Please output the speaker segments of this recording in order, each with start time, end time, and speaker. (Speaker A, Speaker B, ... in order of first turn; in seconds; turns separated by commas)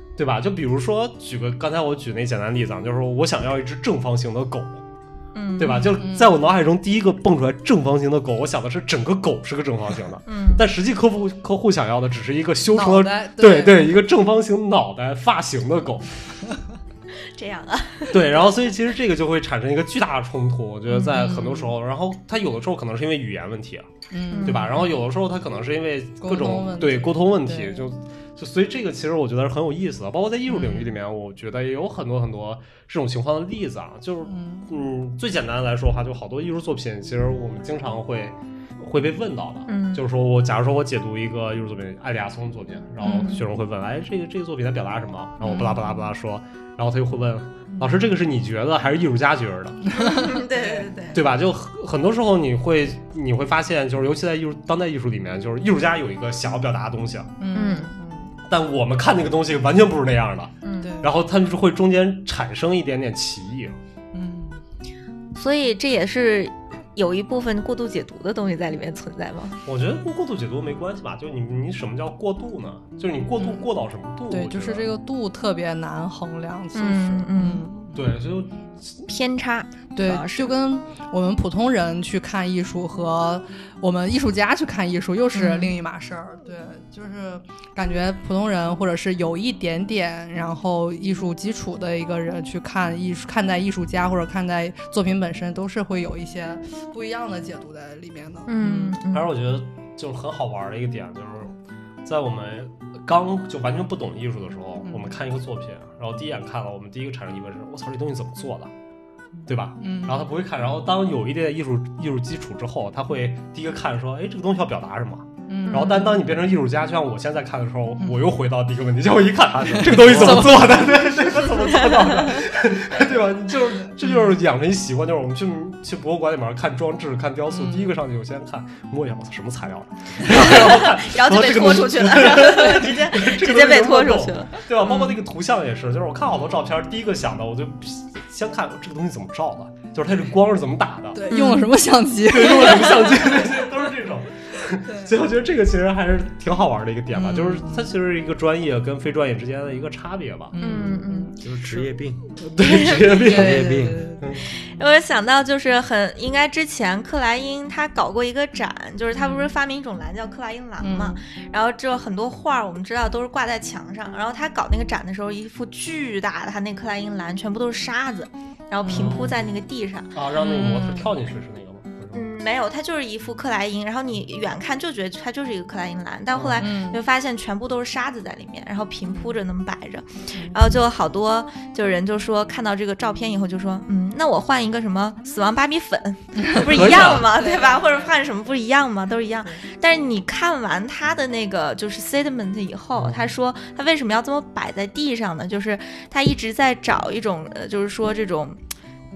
Speaker A: 0.2-4.8, Speaker B: 5.3-6.0, Speaker A: 5.6-16.1, Speaker C: 5.8-6.3, Speaker B: 10.3-10.7, Speaker C: 12.7-13.9, Speaker B: 17.2-18.5, Speaker A: 18.1-23.9, Speaker C: 20.9-21.8, Speaker C: 24.1-24.9, Speaker B: 24.3-24.9, Speaker A: 24.5-49.8, Speaker C: 26.2-27.9, Speaker C: 30.5-30.9, Speaker C: 34.2-34.7, Speaker B: 39.7-40.1, Speaker C: 43.0-43.4, Speaker B: 43.0-43.4, Speaker B: 45.4-46.0, Speaker C: 49.9-50.9, Speaker B: 49.9-51.2, Speaker A: 51.1-57.3, Speaker C: 57.4-58.3, Speaker B: 57.5-57.9, Speaker A: 58.5-63.8, Speaker B: 60.6-60.9, Speaker C: 60.8-61.1, Speaker C: 64.1-64.6, Speaker B: 65.3-69.6, Speaker A: 69.7-74.9, Speaker C: 74.3-78.0, Speaker B: 76.7-77.7, Speaker A: 77.9-79.0, Speaker B: 79.1-80.5, Speaker C: 79.9-99.0, Speaker B: 85.3-85.7, Speaker B: 98.5-99.3, Speaker A: 99.1-101.5, Speaker A: 102.1-108.7, Speaker C: 104.8-105.1, Speaker A: 109.5-141.2, Speaker C: 109.8-110.3, Speaker C: 115.5-116.1, Speaker B: 115.7-116.1, Speaker C: 118.0-118.3, Speaker D: 119.5-120.8, Speaker C: 119.7-121.0, Speaker B: 121.4-122.5, Speaker C: 123.7-124.2, Speaker C: 127.5-127.9, Speaker B: 130.2-135.2, Speaker C: 141.1-143.3, Speaker B: 141.3-141.7, Speaker A: 142.3-150.5, Speaker C: 144.8-145.1, Speaker C: 147.1-147.9, Speaker C: 150.5-151.4, Speaker B: 150.6-151.3, Speaker D: 151.4-152.3, Speaker A: 152.4-154.5, Speaker B: 152.6-153.4, Speaker C: 153.3-154.2, Speaker D: 153.3-154.0, Speaker B: 154.6-171.1, Speaker C: 159.2-159.5, Speaker C: 160.8-161.2, Speaker C: 168.8-169.3, Speaker A: 168.9-169.3, Speaker A: 170.2-172.3, Speaker B: 172.1-198.6, Speaker A: 176.3-176.7, Speaker C: 176.6-177.0, Speaker C: 180.3-180.6, Speaker C: 186.3-188.2, Speaker A: 186.6-187.3, Speaker A: 192.9-193.3